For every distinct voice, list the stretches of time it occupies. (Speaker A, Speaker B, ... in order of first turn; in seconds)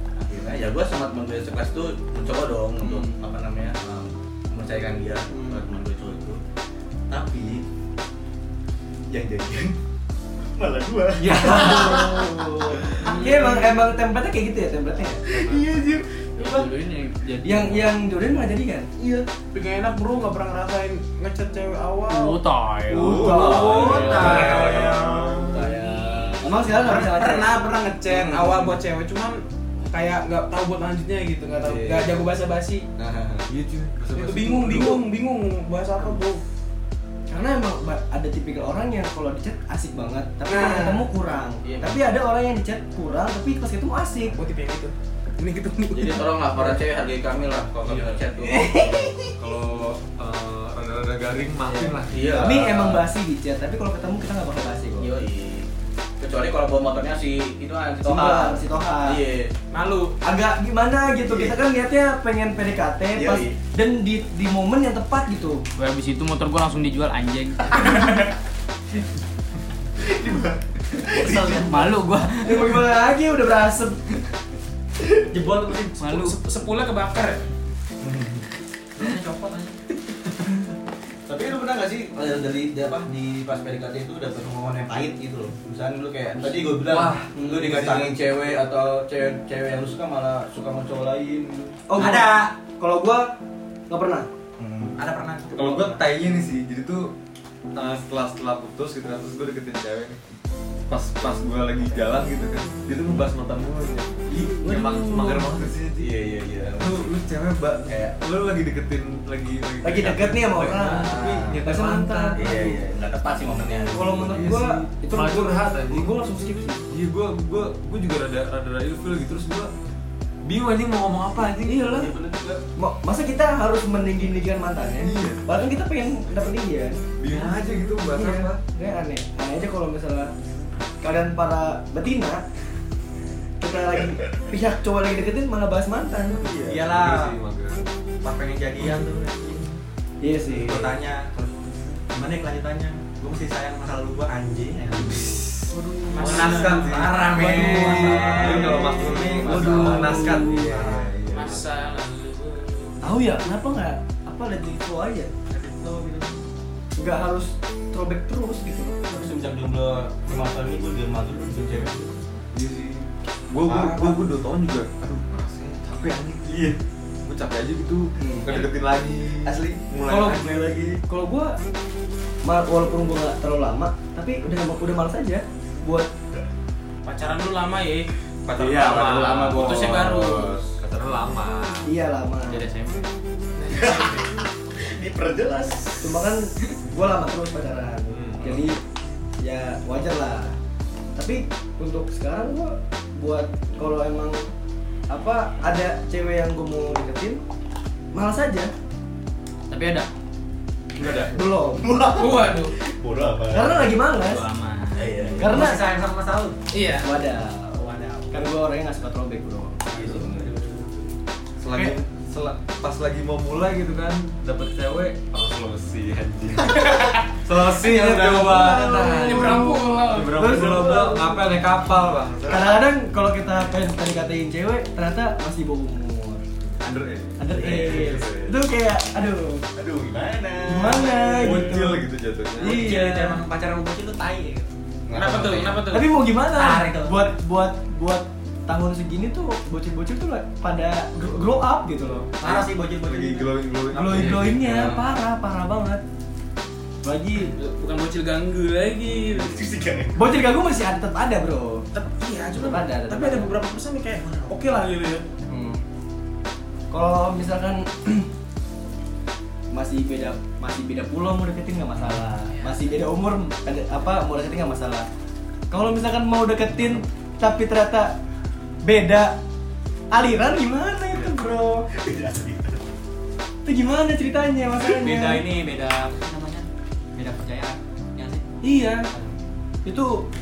Speaker A: 0.2-6.4, 7.1-7.6, 9.1-9.8, 10.5-13.3, 15.2-16.7, 19.0-19.2, 23.2-26.5, 28.1-28.7, 31.6-32.2, 33.0-33.5, 41.6-42.0, 45.9-48.9, 52.0-53.0, 55.0-55.7, 56.2-59.5, 61.2-61.5, 63.1-63.6, 70.0-71.7, 78.0-78.5, 81.2-91.8, 94.6-95.0, 106.0-107.1, 107.9-108.1, 111.0-111.5, 112.3-114.5, 121.9-122.6, 136.4-136.8, 148.1-148.6, 149.2-149.8, 159.1-162.2, 163.6-164.2, 166.5-166.8, 169.4-169.8, 170.4-171.0, 178.5-180.8, 183.6-186.2, 201.0-204.0, 204.9-205.7, 209.9-210.5, 217.7-219.1, 220.6-221.2, 227.5-228.2, 229.8-231.8, 235.1-235.8, 244.1-245.0, 249.3-250.3, 271.9-272.8
Speaker B: 2.8-3.2, 5.3-5.6, 11.4-15.3, 17.4-18.9, 22.9-24.6, 26.4-27.5, 37.3-44.4, 48.5-49.1, 52.3-55.1, 58.0-59.2, 60.2-65.6, 72.3-74.2, 87.3-87.9, 91.9-93.3, 93.9-94.3, 104.3-105.7, 109.8-112.8, 113.9-116.8, 121.6-122.1, 122.8-127.5, 128.0-130.3, 131.0-132.4, 133.6-136.4, 140.2-140.9, 147.5-150.7, 153.0-155.3, 157.0-159.1, 168.2-168.5, 170.1-170.5, 171.0-171.6, 172.4-176.1, 181.8-182.6, 186.0-188.8, 189.4-190.6, 191.2-194.4, 195.1-197.4, 198.1-198.7, 201.0-201.9, 203.5-204.5, 205.4-205.8, 207.0-207.8, 208.3-210.2, 220.3-221.3, 222.5-226.4, 227.4-229.7, 230.6-232.0, 232.6-233.4, 235.9-242.3, 243.9-246.0, 247.0-247.5, 250.1-251.8, 252.5-253.5, 255.5-255.8, 256.9-258.3, 259.7-265.1, 265.7-268.2, 268.8-269.4, 270.1-271.9, 273.6-275.4, 278.6-279.1, 279.8-280.3
Speaker C: 11.2-12.3, 22.9-25.6, 33.5-35.0, 47.7-48.2, 48.7-52.6, 86.8-88.1, 95.5-97.1, 97.7-100.2, 100.9-106.1, 106.8-112.7, 114.2-116.1, 116.9-119.7, 120.4-121.9, 125.0-125.4, 127.2-128.6, 136.7-137.8, 144.9-151.7, 161.6-161.9, 162.5-170.8, 178.4-180.1, 180.8-181.9, 188.1-188.8, 211.6-222.8, 226.7-228.6, 231.3-232.9, 242.4-245.0
Speaker D: 13.0-13.5, 19.5-22.4, 23.2-24.9, 26.6-32.9, 34.1-36.4, 40.5-41.0, 44.3-46.6, 59.7-60.2, 76.0-77.4, 146.1-147.0, 151.3-153.0, 177.0-178.1, 179.5-180.6, 183.6-184.2, 202.1-202.7, 206.7-207.1, 210.1-210.9, 218.8-220.5, 235.1-236.1, 247.3-249.6, 251.9-255.2, 262.5-262.9
Speaker E: 16.4-18.1, 22.1-24.6, 65.8-67.8, 71.6-72.7, 76.0-76.4, 199.7-200.1, 204.2-205.2
Speaker F: 75.3-76.1, 79.0-79.8, 91.9-92.5, 95.0-96.0, 136.7-137.4, 138.2-139.8, 140.5-141.6, 142.1-145.4, 146.1-151.1, 155.5-156.4, 205.4-206.6, 207.7-208.5, 232.6-234.7, 236.5-237.3, 242.4-243.5, 254.2-254.5, 274.8-278.4